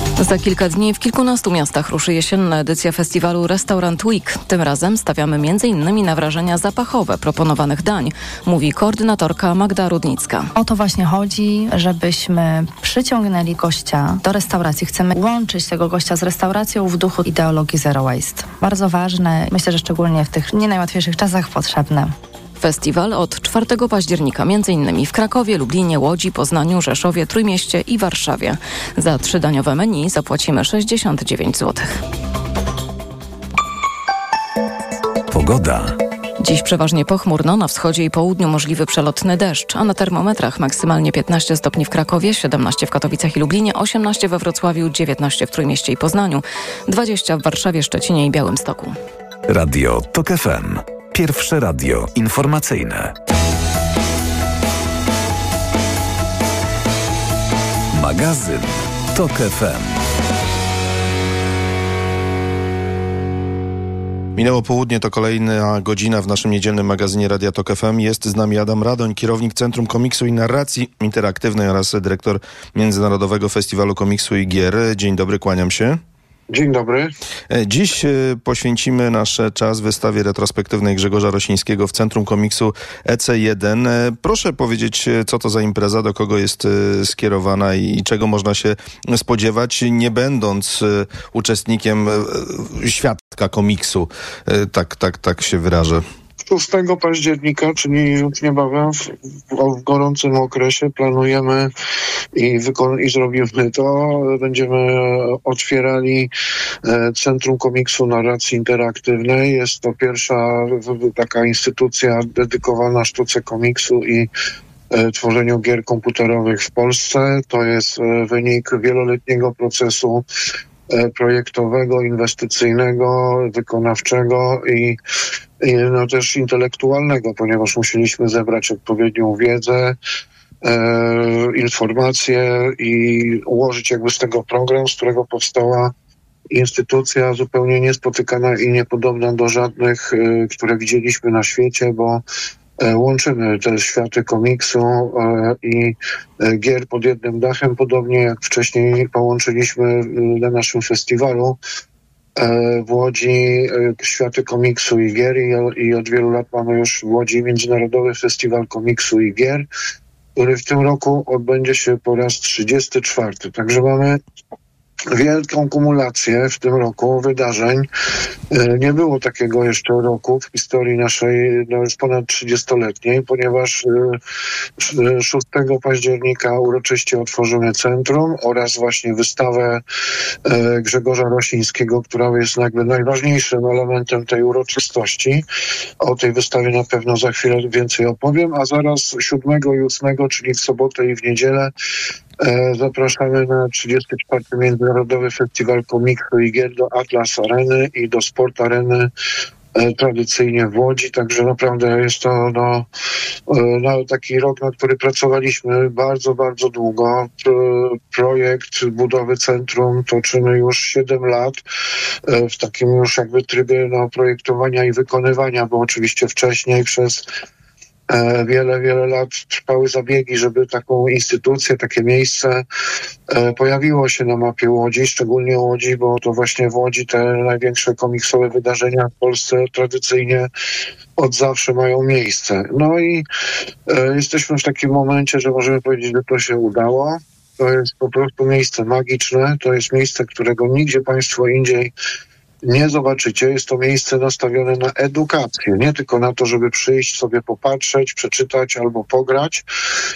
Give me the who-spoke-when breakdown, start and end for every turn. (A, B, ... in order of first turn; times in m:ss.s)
0:00.2-0:10.5 A
0:10.5-0:22.1 B
0:22.6-0:32.0 A
0:35.3-0:36.0 C
0:36.4-0:49.0 A
0:49.5-0:53.1 C
0:57.9-1:00.0 C
1:04.4-1:16.0 D
1:16.5-1:17.1 E
1:17.5-1:36.0 D
1:36.4-1:41.7 E
1:42.3-1:46.3 E
1:46.8-1:54.3 E
1:54.9-2:00.2 E
2:00.9-2:05.0 E
2:05.6-2:10.0 E
2:10.6-2:15.9 E
2:16.5-2:22.2 E
2:22.8-2:31.6 E
2:32.4-2:39.7 E
2:40.4-2:44.2 E
2:45.1-2:47.9 E
2:48.5-2:54.2 E
2:54.8-2:59.8 E
3:00.4-3:05.4 E
3:06.0-3:11.7 E
3:12.4-3:19.1 E
3:19.7-3:22.9 E
3:23.5-3:31.6 E
3:32.2-3:37.2 E
3:38.1-3:42.6 E
3:43.3-3:50.5 E
3:51.2-3:53.2 E
3:53.9-4:01.9 E
4:02.6-4:09.6 E